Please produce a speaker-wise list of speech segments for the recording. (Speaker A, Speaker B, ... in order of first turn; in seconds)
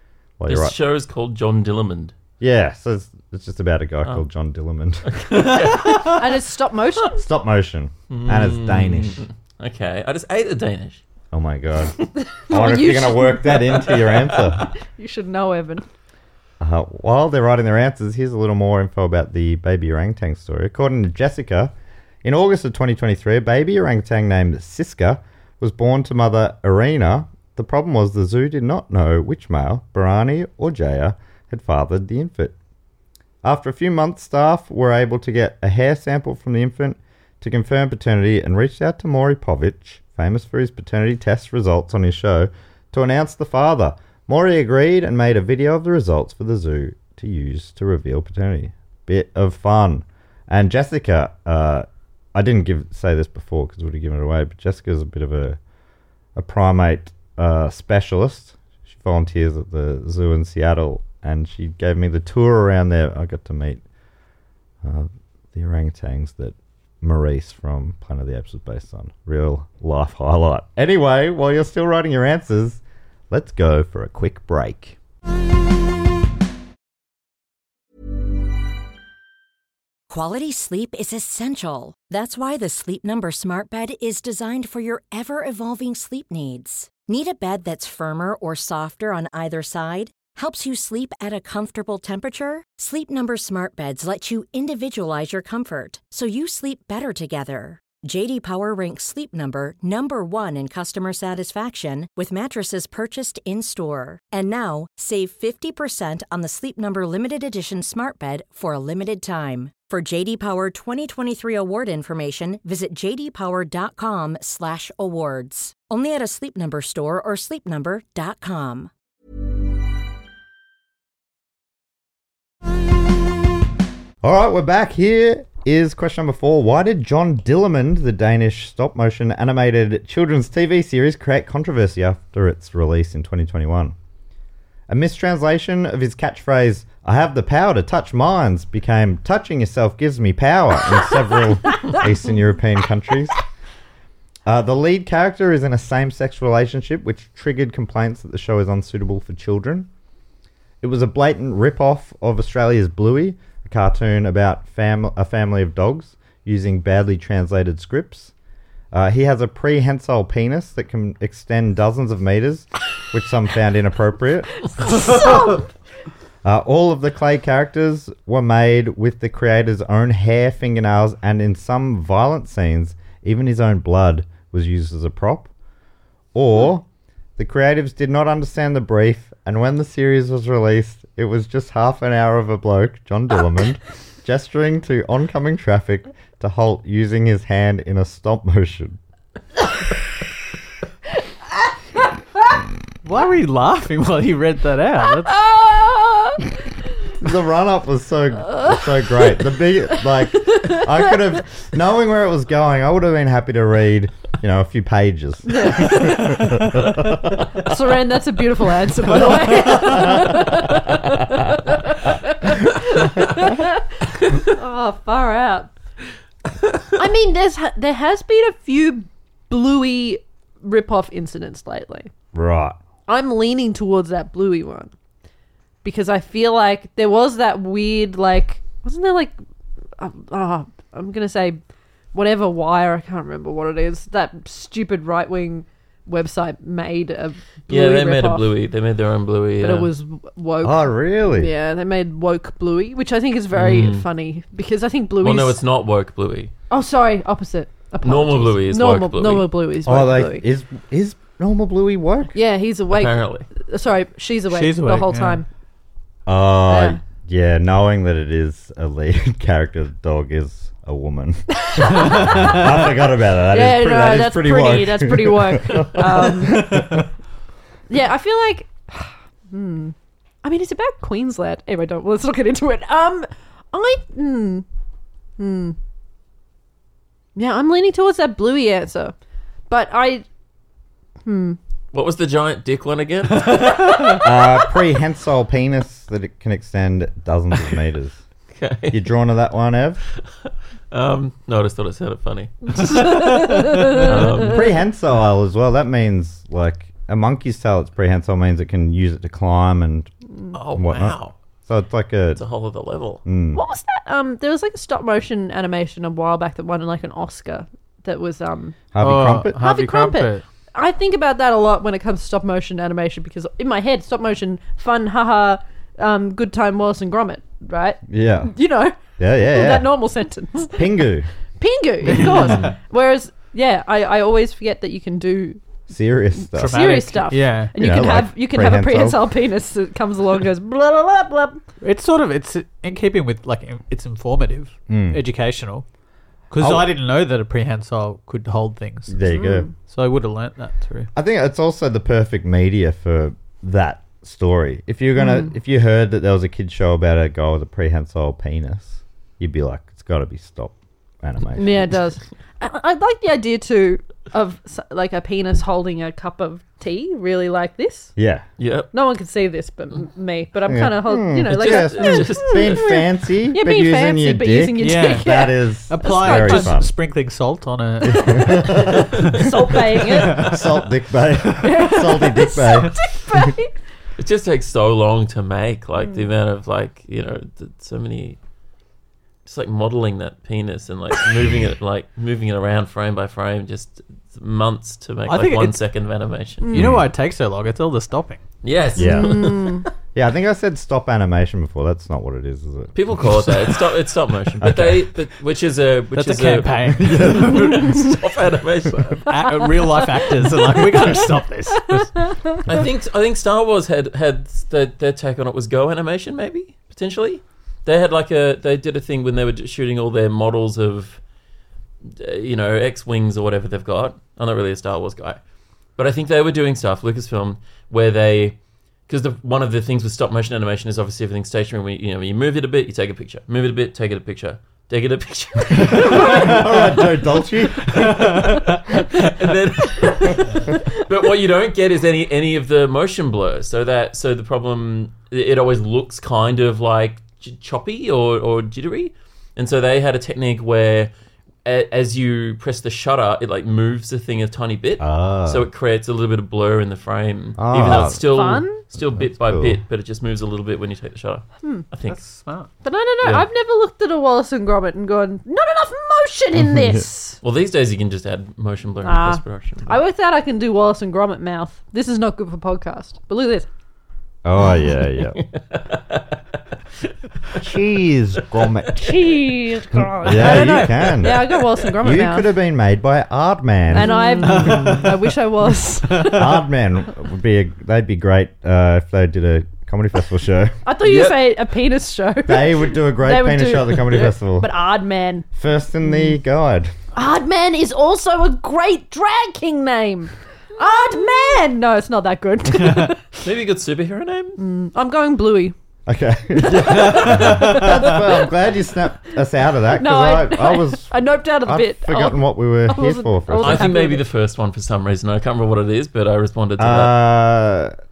Speaker A: 0.4-0.8, 2.4-5.5, 7.2-9.2, 11.3-11.9, 12.5-14.7, 16.6-32.5, 33.4-55.6, 56.4-63.8, 64.8-75.0, 124.2-133.9, 134.9-143.4, 144.4-149.9, 150.8-158.3, 158.9-165.1, 166.4-175.5, 176.3-176.8, 177.4-189.0, 197.2-207.7, 209.1-210.5, 222.3-222.8, 240.6-241.5, 249.8-252.3, 256.2-267.0, 284.2-288.2, 288.9-290.0, 294.4-300.1, 300.7-302.4, 303.2-303.6, 308.9-309.6, 318.1-318.5, 319.2-319.9, 320.8-321.3, 325.9-326.9, 327.7-329.3, 334.9-335.2, 336.6-336.9, 339.1-339.7, 341.1-351.9, 358.2-358.4, 360.7-366.9, 368.0-369.4, 370.2-373.5, 386.7-387.1, 388.9-389.6, 390.1-393.6, 394.6-395.1, 397.0-397.5, 425.8-428.2, 445.0-445.7, 447.6-449.8, 464.4-465.4, 467.5-469.2, 470.2-474.1, 476.3-480.8, 482.4-484.7, 485.6-486.9, 496.1-503.9, 506.8-507.9
Speaker B: 0.5-2.1, 5.1-6.2, 8.1-11.0, 237.7-239.9, 243.5-244.1, 245.2-246.5, 248.0-249.5, 252.9-253.4, 281.9-284.2, 288.5-289.0, 290.9-294.6, 300.5-301.3, 302.4-303.2, 358.6-358.9, 361.5-362.9, 374.2-378.4, 379.4-386.7, 388.6-389.8, 392.9-399.3, 402.7-411.2, 412.0-415.4, 415.9-427.0, 428.0-441.1, 441.6-452.2, 457.4-460.0, 465.3-466.2, 470.3-471.6, 474.1-475.0, 481.0-481.5, 493.4-494.6, 503.6-507.1
Speaker C: 6.0-7.2, 12.3-13.9, 14.9-15.8, 164.9-165.7, 195.2-196.5, 198.5-199.3, 200.5-200.9, 205.5-206.5, 207.6-215.7, 216.9-222.1, 223.1-224.9, 225.8-229.3, 230.0-231.6, 232.1-238.5, 239.6-245.6, 246.7-250.4, 252.3-255.4, 256.7-257.0, 261.6-262.9, 263.5-266.9, 267.9-274.6, 275.4-275.8, 277.3-279.1, 279.7-280.2, 281.2-281.6, 292.9-294.4, 303.5-308.9, 309.6-320.9, 321.6-325.6, 326.6-331.6, 339.3-339.7, 351.5-358.1, 358.9-366.7, 368.1-370.6, 371.6-373.7, 386.6-387.0, 388.9-389.9, 399.3-401.2, 401.9-402.5, 448.2-448.8, 452.8-457.4, 459.0-463.7, 468.9-472.5, 473.9-476.6, 480.8-485.5, 487.1-493.4, 494.6-495.7, 496.6-498.5, 499.9-504.2
Speaker D: 80.1-118.9
Speaker E: 193.0-195.3, 254.5-255.4, 309.0-310.4, 326.6-327.7, 331.8-335.8, 336.5-339.2, 339.8-341.1, 364.8-365.3, 365.9-369.3, 370.1-370.6, 385.2-385.8, 386.7-388.4, 396.1-398.1, 399.2-402.1, 428.2-428.6, 452.1-452.7, 474.4-475.1